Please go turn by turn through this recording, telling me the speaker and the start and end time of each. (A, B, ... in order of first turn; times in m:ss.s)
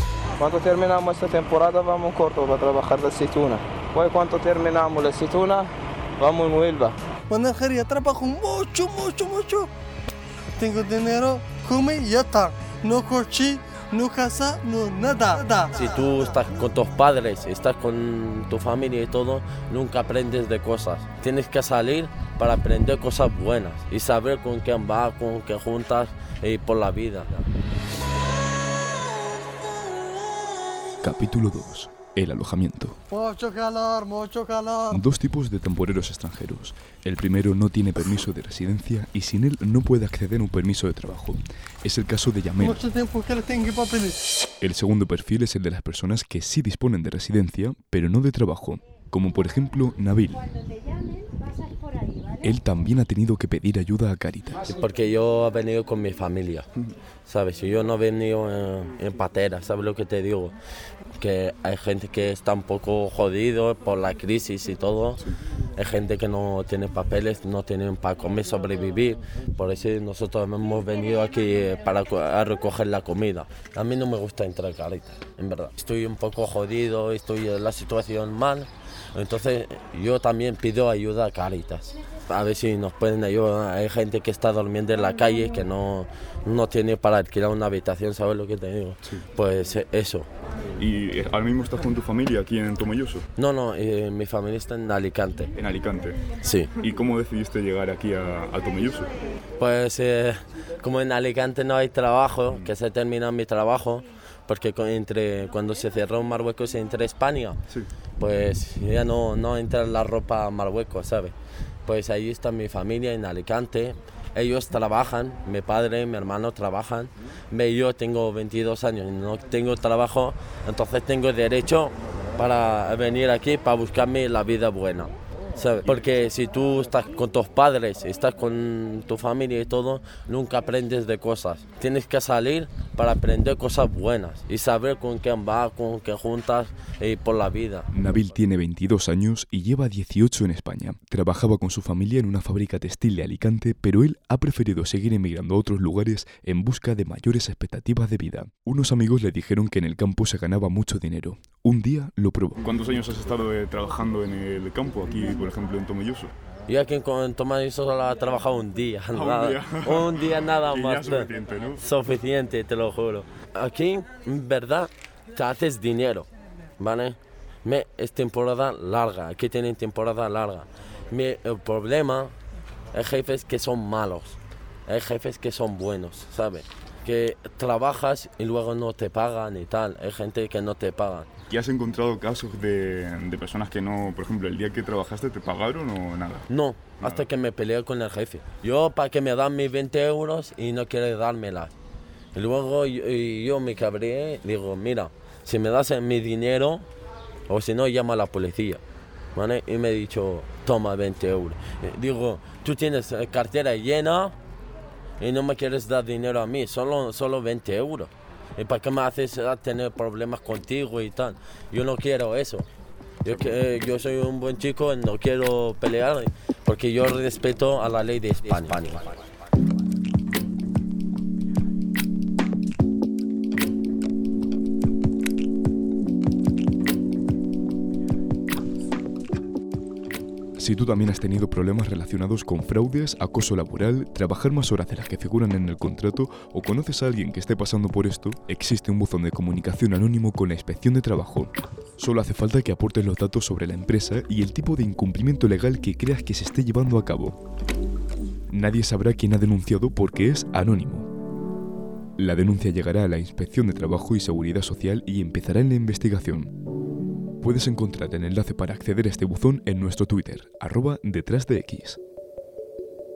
0:00.4-0:07.0 A
0:07.3-0:09.7 B
0:10.6-0:15.9 B
0:15.7-0:27.4 C
0:31.0-0:33.0 D
0:33.1-0:34.9 B
0:34.9-0:42.8 D
0:42.6-0:44.2 B
0:44.6-0:50.6 D
0:52.4-0:54.6 D
0:54.7-0:56.6 C
0:57.2-1:00.5 C
1:01.2-1:05.2 C
1:05.8-1:30.3 C
1:30.8-1:33.2 E
1:33.4-1:35.5 C
1:35.6-1:36.2 E
1:36.4-1:36.7 C
1:36.8-1:39.1 E
1:39.6-1:47.6 C
1:48.2-1:51.3 C
1:51.8-2:17.9 C
2:05.8-2:06.1 E
2:17.9-2:32.6 D
2:32.6-2:36.3 E
2:36.7-2:46.3 C
2:39.1-2:41.8 E
2:46.8-2:52.3 C
2:52.9-3:01.3 C
3:01.5-3:06.5 E
3:06.5-3:11.7 C
3:07.0-3:07.3 E
3:12.3-3:16.8 C
3:17.5-3:18.8 C
3:19.3-3:24.4 C
3:25.2-3:32.6 C
3:33.2-3:39.1 C
3:50.6-4:07.4 D
4:08.5-4:11.1 D
4:12.2-4:16.5 D
4:17.4-4:22.0 D